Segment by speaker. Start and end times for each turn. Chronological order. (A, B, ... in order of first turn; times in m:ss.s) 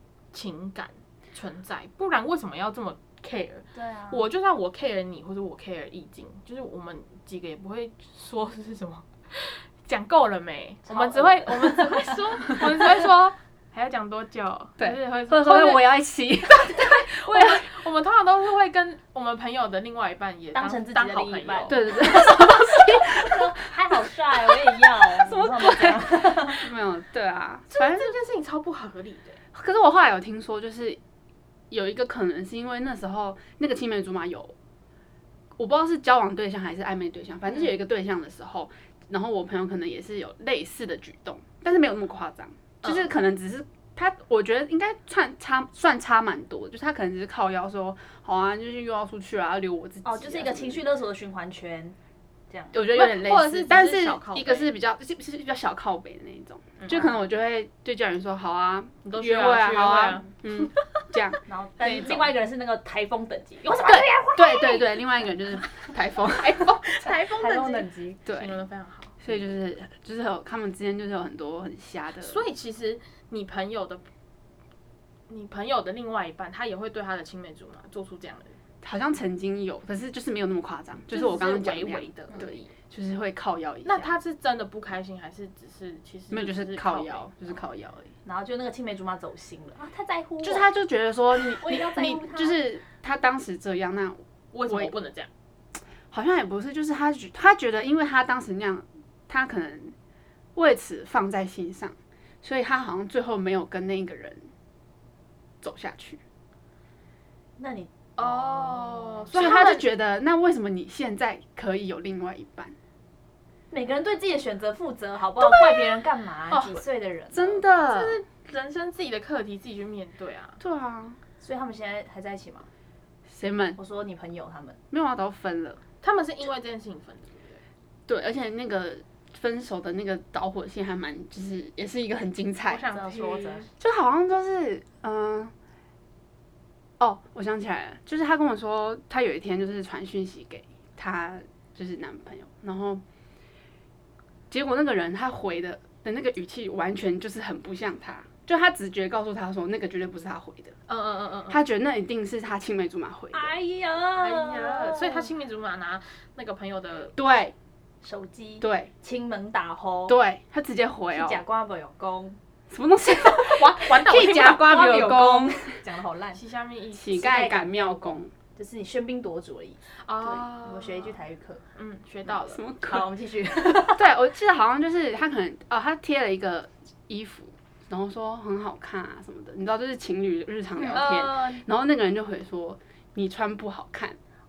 0:00.3-0:15.9 A
0:03.7-0:04.3 B
0:10.8-0:12.4 B
0:14.8-0:17.8 C
0:16.5-0:21.9 A
0:20.5-0:26.7 B
0:21.7-0:28.2 C
0:27.7-0:29.4 A
0:29.5-0:31.0 C
0:31.7-0:34.6 C
0:35.6-0:50.8 C
0:50.0-0:52.0 B
0:52.5-0:52.8 B
0:52.7-1:01.4 C
0:52.9-0:54.8 A
0:56.8-0:57.1 A
0:59.0-1:01.0 A
1:01.5-1:05.3 B
1:01.8-1:02.3 A
1:03.8-1:06.8 C
1:06.5-1:09.2 A
1:07.0-1:08.2 B
1:08.3-1:08.6 C
1:09.2-1:12.4 C
1:12.2-1:14.1 A
1:15.3-1:18.6 A
1:18.8-1:24.2 C
1:21.1-1:22.7 A
1:23.8-1:27.4 A
1:26.3-1:28.1 C
1:28.2-1:30.7 B
1:30.4-1:34.9 C
1:31.3-1:32.6 B
1:34.5-1:35.3 A
1:36.1-1:40.0 C
1:40.6-1:44.5 C
1:45.6-1:46.2 C
1:47.6-1:49.4 B
1:48.2-1:49.8 A
1:49.3-1:52.8 C
1:53.7-1:57.6 B
1:55.4-1:56.7 A
1:56.5-1:58.2 C
1:57.9-2:00.6 A
2:00.6-2:01.2 C
2:01.4-2:02.7 B
2:03.3-2:03.8 C
2:03.8-2:04.8 B
2:04.9-2:05.8 C
2:06.0-2:07.6 A
2:08.1-2:12.9 C
2:12.7-2:13.7 A
2:12.9-2:13.7 B
2:13.8-2:15.5 C
2:17.0-2:23.0 C
2:24.5-2:30.8 C
2:30.9-2:31.6 A
2:31.5-2:33.5 C
2:33.3-2:35.3 B
2:34.2-2:37.1 A
2:37.2-2:37.6 C
2:38.0-2:40.2 B
2:38.6-2:38.9 C
2:40.1-2:41.4 C
2:41.1-2:42.4 B
2:42.7-2:45.8 C
2:43.6-2:44.8 A
2:44.0-2:46.4 B
2:46.3-2:47.5 A
2:46.9-2:48.3 C
2:47.1-2:49.8 B
2:49.9-2:51.2 A
2:50.4-2:51.6 B
2:51.8-2:52.6 A
2:52.3-2:53.1 C
2:52.8-2:54.1 B
2:53.9-3:04.2 C
3:00.8-3:01.6 B